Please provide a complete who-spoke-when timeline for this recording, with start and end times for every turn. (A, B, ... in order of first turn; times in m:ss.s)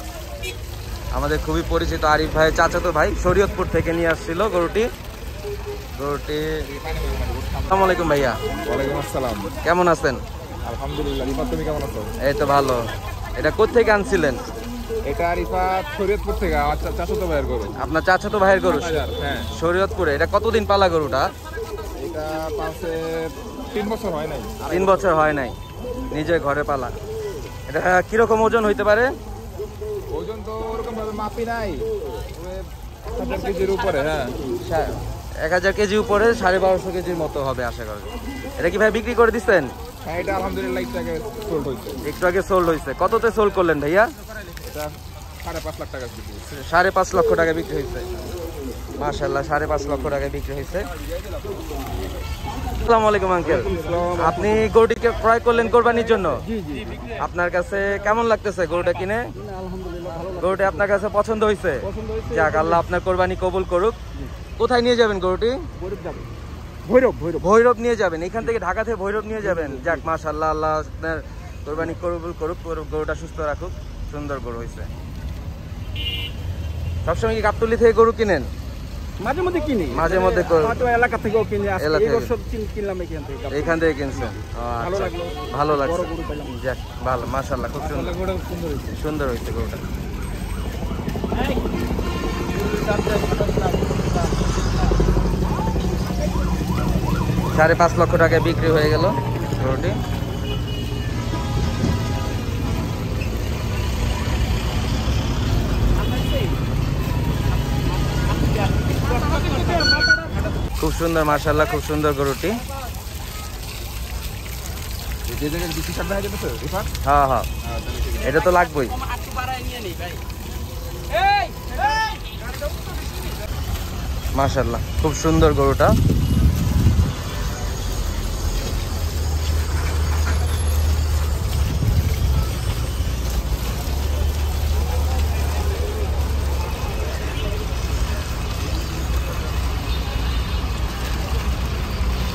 0:01.1-0:04.9 A
0:06.0-0:06.6 A
0:06.6-0:07.9 B
0:07.7-0:08.4 A
0:08.7-0:09.6 B
0:09.6-0:10.2 A
0:10.6-0:12.1 B
0:12.2-0:14.4 A
0:15.0-0:17.8 B
0:17.8-0:19.0 A
0:18.7-0:19.5 B
0:19.5-0:21.3 A
0:22.0-0:25.1 B
0:24.7-0:25.6 A
0:26.1-0:27.0 A
0:27.7-0:29.1 A
0:30.1-0:34.3 B
0:34.6-0:39.7 A
0:40.0-0:42.0 B
0:42.0-0:44.1 A
0:44.6-0:46.4 B
0:46.4-0:48.1 A
0:49.0-0:50.9 A
0:51.1-0:51.5 B
0:52.8-0:56.4 A
0:53.4-0:54.7 C
0:53.7-0:54.2 B
0:56.2-0:57.0 C
0:57.2-0:59.3 A
0:59.4-1:00.9 C
1:00.4-1:04.0 A
1:01.8-1:02.8 C
1:04.6-1:05.6 A
1:05.8-1:06.3 C
1:06.8-1:07.5 C
1:07.4-1:14.9 A
1:09.5-1:10.0 C
1:17.0-1:18.5 A
1:19.2-1:26.6 C
1:19.9-1:20.8 A
1:21.8-1:22.3 A
1:23.5-1:28.2 A
1:27.8-1:28.7 C
1:28.4-1:28.9 B
1:28.9-1:29.8 A
1:32.6-1:34.3 C
1:37.5-1:40.0 A
1:48.9-1:50.3 C
1:50.8-1:52.6 A
1:55.3-1:56.9 B
1:57.0-1:57.5 A
1:57.6-1:58.4 B
1:58.2-1:59.0 A
1:59.0-2:00.2 C
2:01.1-2:02.3 C
2:04.4-2:06.0 A